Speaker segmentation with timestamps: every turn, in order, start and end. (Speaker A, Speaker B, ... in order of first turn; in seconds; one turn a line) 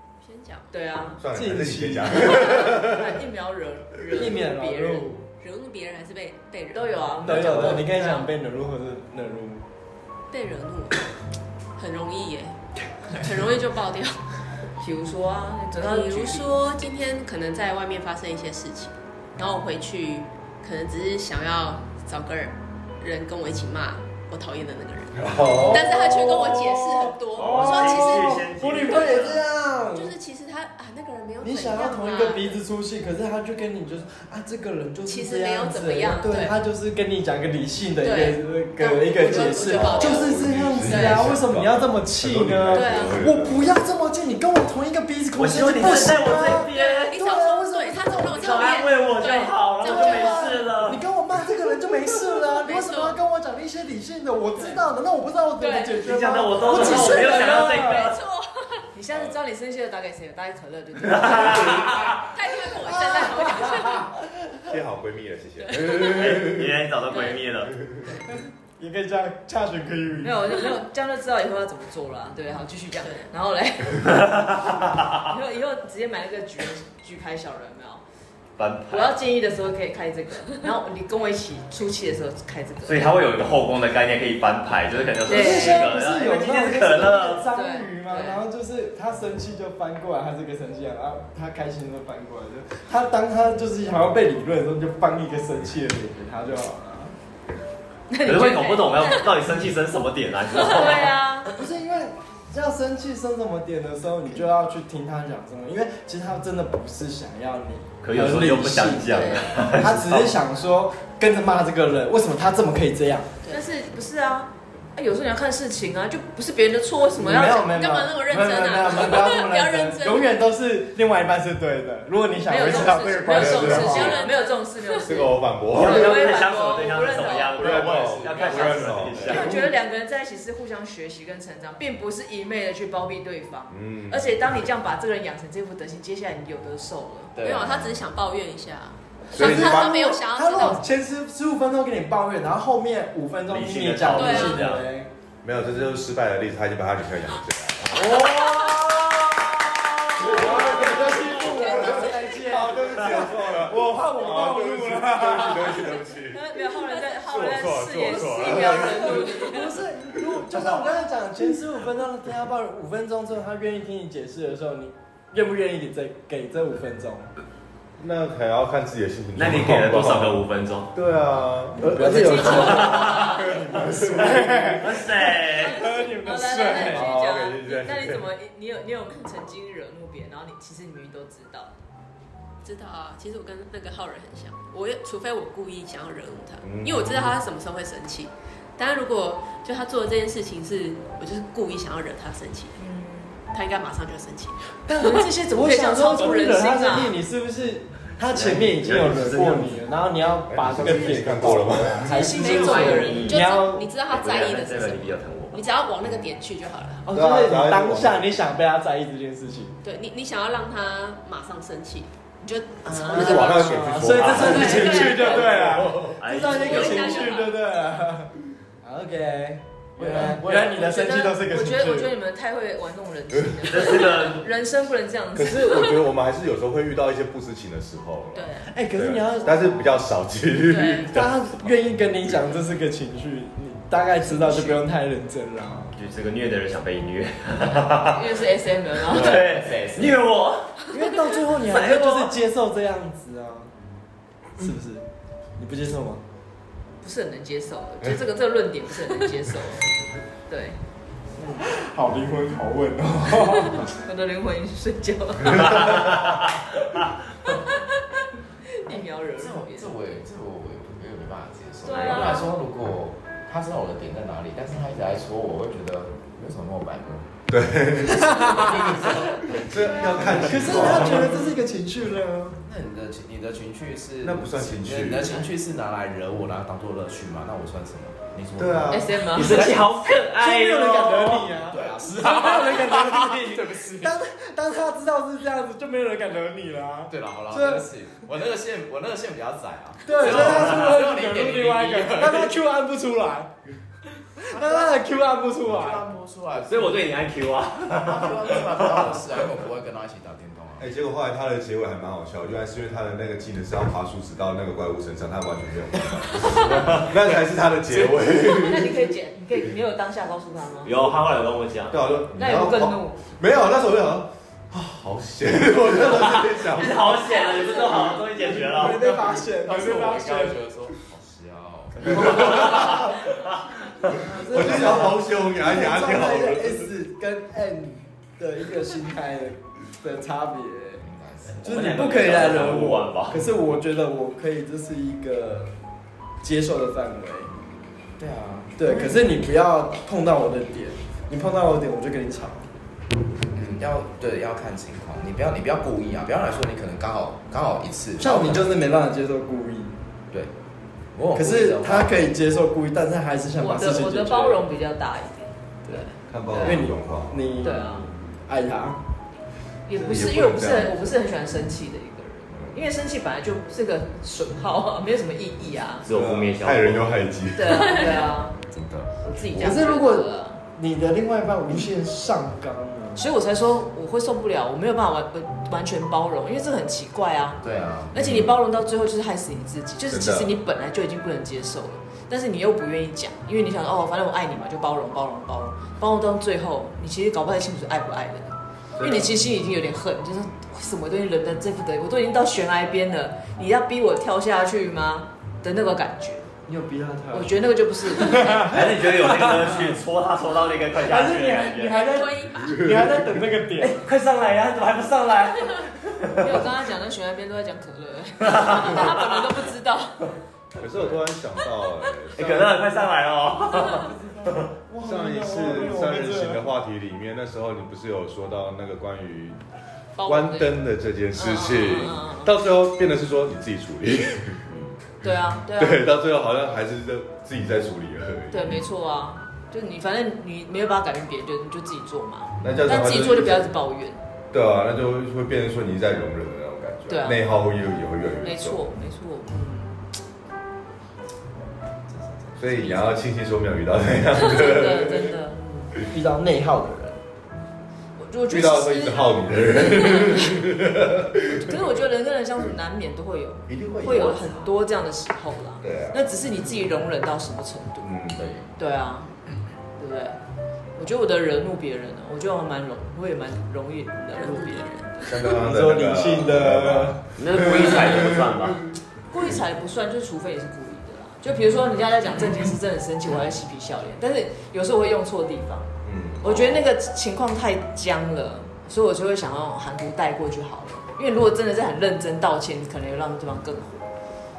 Speaker A: 0.2-0.7
Speaker B: 0.7-1.2
Speaker C: 1.2-3.2
Speaker D: 1.3-2.5
Speaker B: 2.1-5.1
Speaker D: 4.1-5.3
Speaker A: 5.4-8.0
Speaker B: 6.7-8.3
Speaker D: 7.2-9.6
Speaker A: 10.3-11.0
Speaker A: 11.8-12.6
Speaker A: 13.1-14.4
Speaker B: 14.8-16.6
Speaker A: 15.8-32.6
Speaker C: 25.1-26.1
Speaker D: 25.6-30.1
Speaker E: 27.4-29.4
Speaker D: 31.4-48.8
Speaker A: 35.0-36.6
Speaker A: 38.0-41.3
Speaker C: 39.6-43.7
Speaker A: 42.7-43.2
Speaker E: 45.4-47.2
Speaker A: 46.5-50.6
Speaker E: 48.3-51.0
Speaker D: 49.8-58.1
Speaker A: 52.3-53.2
Speaker A: 55.6-56.1
Speaker E: 56.0-58.2
Speaker A: 56.6-58.8
Speaker B: 56.8-57.2
Speaker B: 58.9-61.9
Speaker E: 61.0-62.2
Speaker C: 61.2-62.1
Speaker A: 62.0-64.1
Speaker D: 62.9-64.1
Speaker B: 63.1-63.7
Speaker C: 64.7-66.7
Speaker A: 65.6-66.3
Speaker E: 65.9-67.8
Speaker A: 67.1-67.4
Speaker D: 68.3-70.6
Speaker B: 70.2-74.4
Speaker A: 73.0-73.3
Speaker E: 74.0-75.2
Speaker B: 75.2-78.0
Speaker E: 78.6-79.2
Speaker B: 78.9-83.2
Speaker E: 82.9-87.5
Speaker D: 85.3-97.1
Speaker B: 85.3-86.0
Speaker B: 87.5-88.4
Speaker B: 98.1-99.3
Speaker E: 98.2-101.2
Speaker B: 100.6-101.6
Speaker D: 101.5-113.3
Speaker E: 108.0-110.3
Speaker B: 113.5-117.7
Speaker D: 117.2-124.2
Speaker A: 117.5-120.4
Speaker B: 122.5-127.8
Speaker C: 123.3-124.2
Speaker A: 123.6-125.3
Speaker C: 125.0-126.2
Speaker E: 125.7-129.5
Speaker C: 127.5-129.6
Speaker F: 127.6-129.3
Speaker B: 129.3-137.3
Speaker D: 129.4-129.6
Speaker C: 133.7-134.5
Speaker F: 137.3-138.0
Speaker A: 137.4-140.8
Speaker D: 139.3-145.1
Speaker C: 139.3-140.0
Speaker E: 143.5-144.8
Speaker A: 144.1-144.7
Speaker C: 145.4-148.3
Speaker D: 148.0-148.8
Speaker E: 148.0-149.4
Speaker A: 148.3-148.7
Speaker D: 150.2-155.9
Speaker C: 150.2-156.6
Speaker A: 151.4-152.0
Speaker B: 156.2-159.8
Speaker A: 156.9-157.1
Speaker C: 157.2-159.3
Speaker A: 158.1-159.8
Speaker D: 158.7-167.3
Speaker C: 160.2-160.6
Speaker C: 168.0-170.4
Speaker E: 169.4-170.9
Speaker C: 170.9-174.8
Speaker D: 171.8-177.2
Speaker B: 171.9-173.6
Speaker E: 172.3-173.5
Speaker E: 174.1-175.8
Speaker B: 175.6-181.7
Speaker C: 176.8-178.2
Speaker A: 182.6-192.8
Speaker C: 186.6-187.3
Speaker B: 192.8-193.4
Speaker A: 193.5-194.6
Speaker D: 194.9-203.9
Speaker B: 194.9-197.2
Speaker E: 198.3-199.8
Speaker C: 200.5-202.4
Speaker B: 202.0-203.3
Speaker A: 202.3-207.1
Speaker E: 202.8-203.5
Speaker E: 204.1-205.6
Speaker D: 207.1-209.7
Speaker C: 207.1-208.3
Speaker A: 209.8-215.8
Speaker B: 212.8-214.0
Speaker C: 213.1-215.0
Speaker D: 213.1-222.1
Speaker E: 214.1-217.4
Speaker C: 215.6-216.2
Speaker A: 216.4-217.6
Speaker F: 220.0-220.9
Speaker B: 220.5-226.0
Speaker C: 223.4-223.8
Speaker E: 223.7-224.4
Speaker C: 225.3-231.7
Speaker A: 228.3-228.7
Speaker D: 228.7-229.9
Speaker B: 230.7-231.1
Speaker D: 231.1-235.9
Speaker E: 235.9-238.5
Speaker B: 238.0-239.5
Speaker E: 239.1-240.9
Speaker F: 239.1-240.2
Speaker D: 240.9-243.7
Speaker E: 241.5-242.3
Speaker D: 244.6-245.0
Speaker D: 245.6-246.2
Speaker B: 247.0-249.8
Speaker B: 250.5-250.8
Speaker D: 251.4-253.9
Speaker B: 253.8-256.2
Speaker C: 255.6-255.9
Speaker E: 255.8-256.4
Speaker B: 257.5-257.8
Speaker B: 258.7-260.0
Speaker F: 258.9-267.4
Speaker B: 261.8-262.6
Speaker C: 267.5-271.5
Speaker D: 268.2-268.7
Speaker F: 268.4-271.1
Speaker D: 270.4-272.6
Speaker F: 272.6-279.6
Speaker C: 274.2-275.4
Speaker C: 278.6-279.4
Speaker B: 278.9-279.6
Speaker E: 279.3-281.5
Speaker D: 279.4-279.8
Speaker D: 280.4-287.9
Speaker F: 281.7-284.1
Speaker E: 282.6-283.1
Speaker F: 287.1-292.6
Speaker D: 290.1-293.5
Speaker D: 294.4-296.1
Speaker F: 294.5-295.1
Speaker F: 295.6-297.2
Speaker E: 296.7-299.3
Speaker F: 297.9-300.9
Speaker C: 300.8-309.1
Speaker E: 306.6-307.1
Speaker B: 308.6-310.9
Speaker E: 310.9-312.0
Speaker C: 311.9-317.2
Speaker B: 312.4-313.2
Speaker E: 316.1-319.2
Speaker D: 318.5-320.6
Speaker F: 319.0-323.1
Speaker C: 322.1-323.2
Speaker E: 322.1-323.2
Speaker D: 324.1-331.0
Speaker F: 324.2-325.1
Speaker C: 324.5-326.9
Speaker F: 331.0-332.4
Speaker E: 331.6-333.4
Speaker D: 331.6-335.7
Speaker D: 336.4-337.5
Speaker F: 338.2-339.1
Speaker D: 338.8-342.7
Speaker F: 343.5-348.8
Speaker D: 348.2-349.9
Speaker F: 351.1-352.3
Speaker D: 351.4-354.6
Speaker B: 353.6-356.9
Speaker D: 355.9-359.0
Speaker C: 356.3-357.4
Speaker B: 357.6-358.1
Speaker B: 359.9-366.1
Speaker C: 359.9-361.2
Speaker C: 362.5-362.8
Speaker E: 366.1-367.1
Speaker C: 366.1-368.2
Speaker B: 367.5-368.6
Speaker B: 369.2-370.6
Speaker D: 369.5-373.3
Speaker B: 373.1-396.5
Speaker F: 377.6-378.2
Speaker C: 378.2-378.5
Speaker C: 380.1-380.6
Speaker C: 389.0-389.4
Speaker D: 396.7-397.6
Speaker B: 397.3-398.7
Speaker D: 398.2-399.5
Speaker E: 398.6-402.1
Speaker D: 401.0-404.0
Speaker A: 401.9-402.9
Speaker C: 402.8-403.1
Speaker E: 403.8-406.6
Speaker B: 406.4-410.2
Speaker E: 408.5-409.1
Speaker C: 410.8-412.8
Speaker E: 412.4-414.7
Speaker D: 413.8-416.7
Speaker C: 415.0-419.6
Speaker A: 420.2-420.7
Speaker C: 420.2-424.7
Speaker B: 421.3-422.5
Speaker B: 425.2-426.1
Speaker C: 425.2-428.8
Speaker B: 428.5-434.2
Speaker C: 432.6-433.7
Speaker C: 434.5-438.9
Speaker B: 437.1-437.4
Speaker B: 438.4-440.1
Speaker F: 442.1-443.0
Speaker C: 442.6-445.4
Speaker B: 444.4-445.9
Speaker D: 446.1-447.2
Speaker B: 448.2-449.2
Speaker C: 448.5-451.9
Speaker B: 449.8-450.7
Speaker B: 451.5-458.1
Speaker C: 453.7-454.6
Speaker C: 455.8-456.2
Speaker C: 458.0-458.6
Speaker F: 458.4-458.7
Speaker B: 458.8-459.3
Speaker B: 460.0-460.4
Speaker B: 461.0-464.9
Speaker A: 464.3-465.5
Speaker C: 465.3-468.9
Speaker D: 465.5-467.2
Speaker E: 467.4-468.8
Speaker B: 469.3-475.9
Speaker C: 476.1-476.9
Speaker B: 476.4-484.1